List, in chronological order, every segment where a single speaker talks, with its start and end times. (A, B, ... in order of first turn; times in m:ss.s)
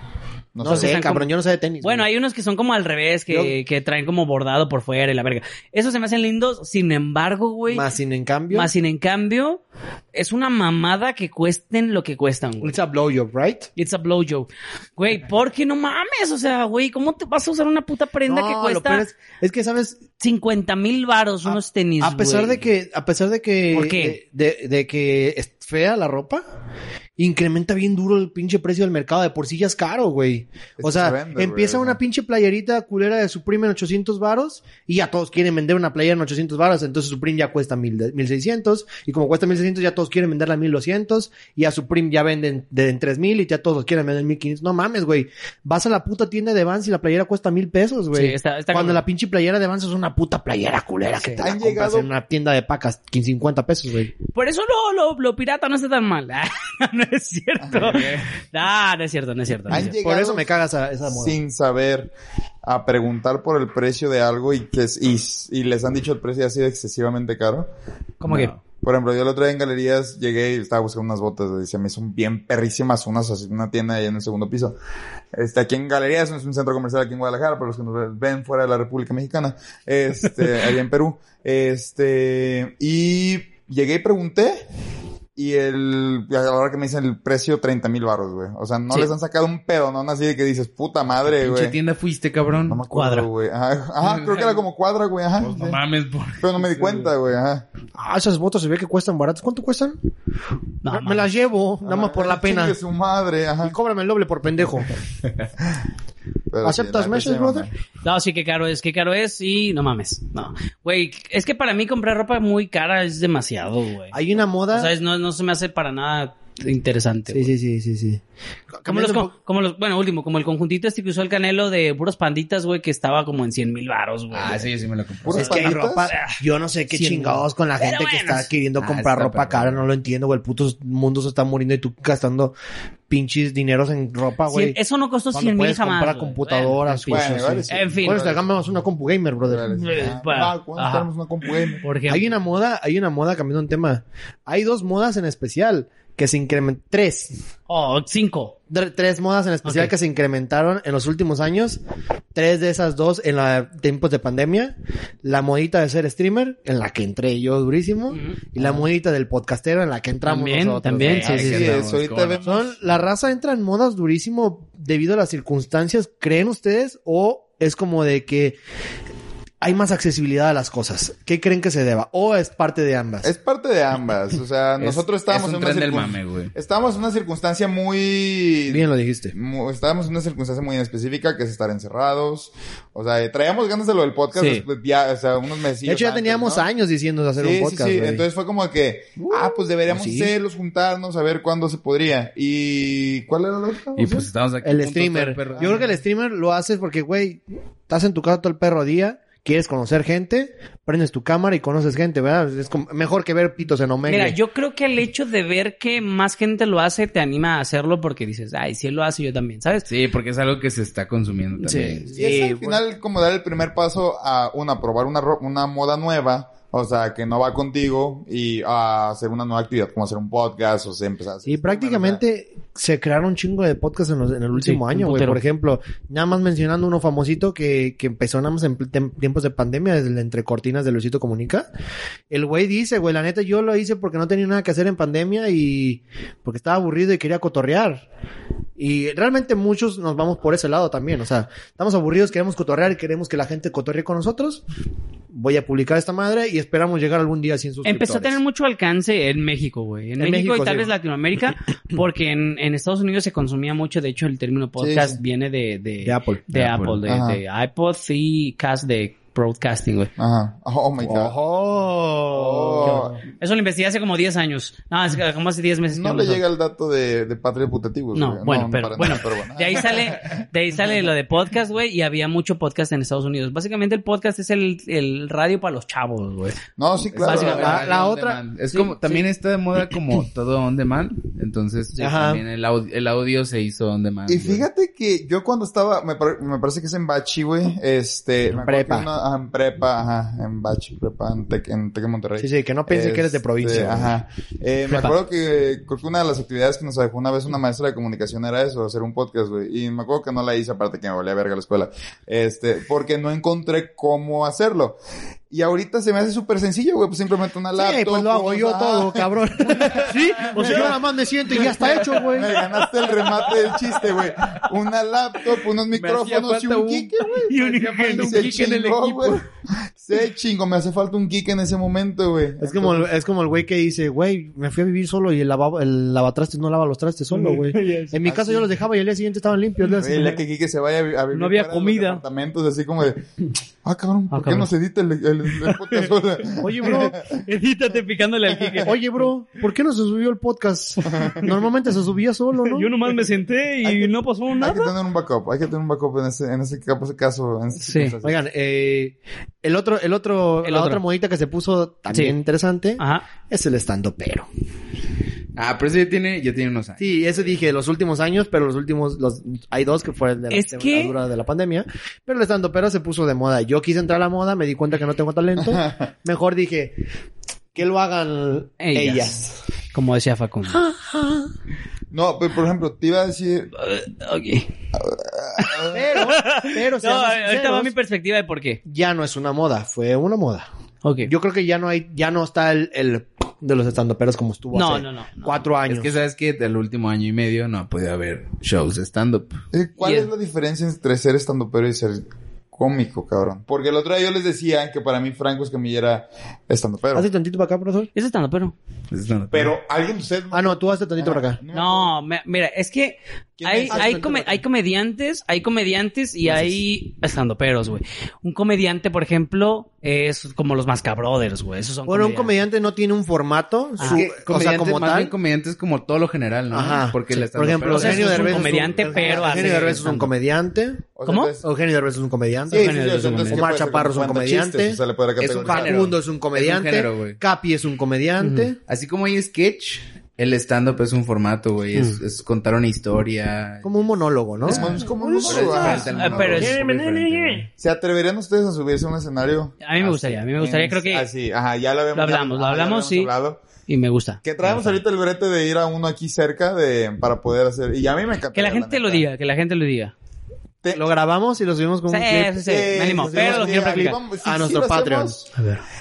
0:00.5-0:01.0 A
0:00.6-0:02.0 B
0:00.6-0:01.3 C
0:01.8-0:07.8 C
0:03.3-0:03.5 B
0:07.7-0:08.7 B
0:08.5-0:09.6 C
0:10.1-0:12.8 C
0:12.6-0:13.7 B
0:13.8-0:19.1 C
0:18.2-0:20.0 B
0:20.2-0:22.6 C
0:21.4-0:26.4 B
0:23.7-0:24.2 C
0:27.2-0:54.1 B
0:30.8-0:32.0 A
0:48.1-0:49.0 C
0:51.2-0:51.4 C
0:51.4-0:52.1 A
0:54.3-1:00.0 C
0:57.6-0:58.1 A
0:57.7-0:58.3 D
0:59.7-1:00.4 A
0:59.7-1:01.3 B
1:01.0-1:02.1 A
1:02.6-1:07.7 A
1:08.2-1:08.5 C
1:08.7-1:14.8 A
1:15.3-1:24.6 A
1:25.4-1:31.8 A
1:31.3-1:32.8 D
1:32.6-1:35.8 A
1:32.9-1:33.3 C
1:34.0-1:34.6 D
1:35.4-1:37.1 D
1:36.4-1:37.6 A
1:37.9-1:40.0 B
1:40.8-1:41.3 C
1:40.9-1:42.8 B
1:41.8-1:43.8 A
1:43.6-1:44.9 B
1:46.5-1:47.7 A
1:46.6-1:47.7 B
1:48.0-1:54.1 C
1:54.1-1:54.9 B
1:54.7-1:57.5 C
1:57.3-1:58.2 B
1:58.8-1:59.3 B
1:58.9-2:04.7 C
2:04.3-2:05.5 D
2:05.2-2:06.1 A
2:05.3-2:12.5 B
2:05.4-2:06.4 C
2:06.9-2:08.5 C
2:08.8-2:09.9 D
2:13.1-2:14.8 B
2:14.5-2:18.2 C
2:15.3-2:19.7 B
2:17.1-2:18.5 A
2:19.4-2:21.8 A
2:19.7-2:21.1 C
2:21.8-2:22.3 C
2:22.1-2:27.4 B
2:27.7-2:28.5 C
2:28.7-2:31.8 B
2:29.6-2:29.9 C
2:32.3-2:41.3 B
2:38.1-2:38.4 C
2:40.2-2:41.7 C
2:40.9-2:42.7 D
2:41.0-2:42.7 A
2:42.4-2:48.6 B
2:49.6-2:53.3 B
2:53.2-3:06.7 A
2:54.8-2:56.5 D
2:58.7-2:59.3 B
3:04.3-3:04.6 C
3:05.8-3:08.2 B
3:07.4-3:14.2 A
3:09.2-3:10.3 B
3:14.0-3:16.0 D
3:14.6-3:24.4 B
3:24.1-3:29.9 C
3:29.9-3:32.4 D
3:31.6-3:32.0 C
3:32.1-3:42.2 A
3:32.1-3:32.8 B
3:41.4-3:51.6 B
3:44.6-3:45.4 C
3:52.3-3:58.0 B
3:58.8-4:04.6 B
4:05.3-4:08.4 B
4:07.8-4:20.1 C
4:10.2-4:10.9 B
4:14.8-4:15.2 A
4:16.0-4:16.4 B
4:16.5-4:17.0 D
4:17.0-4:17.4 A
4:20.2-4:21.3 A
4:21.0-4:23.2 B
4:22.3-4:23.2 A
4:22.8-4:26.4 C
4:25.9-4:30.4 A
4:28.1-4:36.6 C
4:36.8-4:37.9 A
4:37.1-4:44.6 D
4:37.2-4:37.9 C
4:37.3-4:38.4 B
4:38.7-4:39.2 C
4:42.0-4:42.4 B
4:44.3-5:05.0 A
4:48.5-4:49.1 B
4:52.4-4:54.2 B
4:54.9-4:55.1 C
5:05.5-5:23.1 A
5:07.7-5:12.5 B
5:10.5-5:10.9 C
5:11.5-5:13.7 C
5:15.9-5:19.4 D
5:17.5-5:18.7 C
5:22.6-5:30.4 B
5:27.3-5:28.2 C
5:28.2-5:28.7 A
5:30.0-5:33.3 A
5:31.3-5:32.2 C
5:33.8-5:37.4 A
5:34.3-5:34.7 C
5:35.6-5:36.1 C
5:36.6-5:37.2 B
5:36.9-5:39.0 C
5:38.5-5:38.9 A
5:38.8-5:42.9 B
5:41.1-5:41.4 A
5:42.6-5:44.9 C
5:43.8-5:48.4 A
5:47.8-5:48.2 C
5:48.2-5:54.5 B
5:50.6-5:51.0 C
5:53.0-5:53.2 C
5:55.6-5:57.1 D
5:57.0-6:07.0 B
6:00.5-6:01.1 C
6:05.6-6:06.0 A
6:07.7-6:09.5 B
6:08.8-6:09.4 C
6:09.9-6:10.8 C
6:10.7-6:11.5 B
6:12.1-6:13.7 A
6:13.7-6:14.7 C
6:14.9-6:16.1 A
6:15.6-6:18.8 C
6:15.9-6:17.9 B
6:18.8-6:20.7 B
6:21.0-6:21.3 C
6:21.2-6:26.1 B
6:24.7-6:25.6 C
6:25.9-6:29.6 D
6:29.7-6:37.3 A
6:30.0-6:30.3 C
6:37.1-6:38.1 B
6:38.1-6:38.8 C
6:39.1-6:39.7 D
6:39.5-6:42.1 A
6:40.5-6:41.6 B
6:41.7-6:52.5 C
6:43.6-6:44.2 A
6:43.9-6:44.6 B
6:52.0-6:55.3 B
6:54.0-6:54.2 C
6:54.0-6:59.3 D
6:56.7-7:01.0 B
6:57.9-7:00.3 C
6:59.2-7:00.0 A
7:01.2-7:01.7 A
7:01.2-7:01.5 C
7:01.6-7:05.0 B
7:02.7-7:06.0 A
7:02.7-7:03.7 C
7:05.4-7:07.4 D
7:05.6-7:08.8 B
7:08.4-7:08.7 C
7:08.9-7:17.7 D
7:13.8-7:17.6 B
7:14.7-7:16.7 A
7:15.8-7:16.8 C
7:17.8-7:23.6 A
7:19.8-7:21.3 C
7:22.1-7:23.3 C
7:23.9-7:24.9 C
7:24.4-7:29.3 A
7:28.5-7:30.1 C
7:30.9-7:35.5 B
7:32.1-7:34.2 C
7:32.6-7:35.4 A
7:35.6-7:35.8 C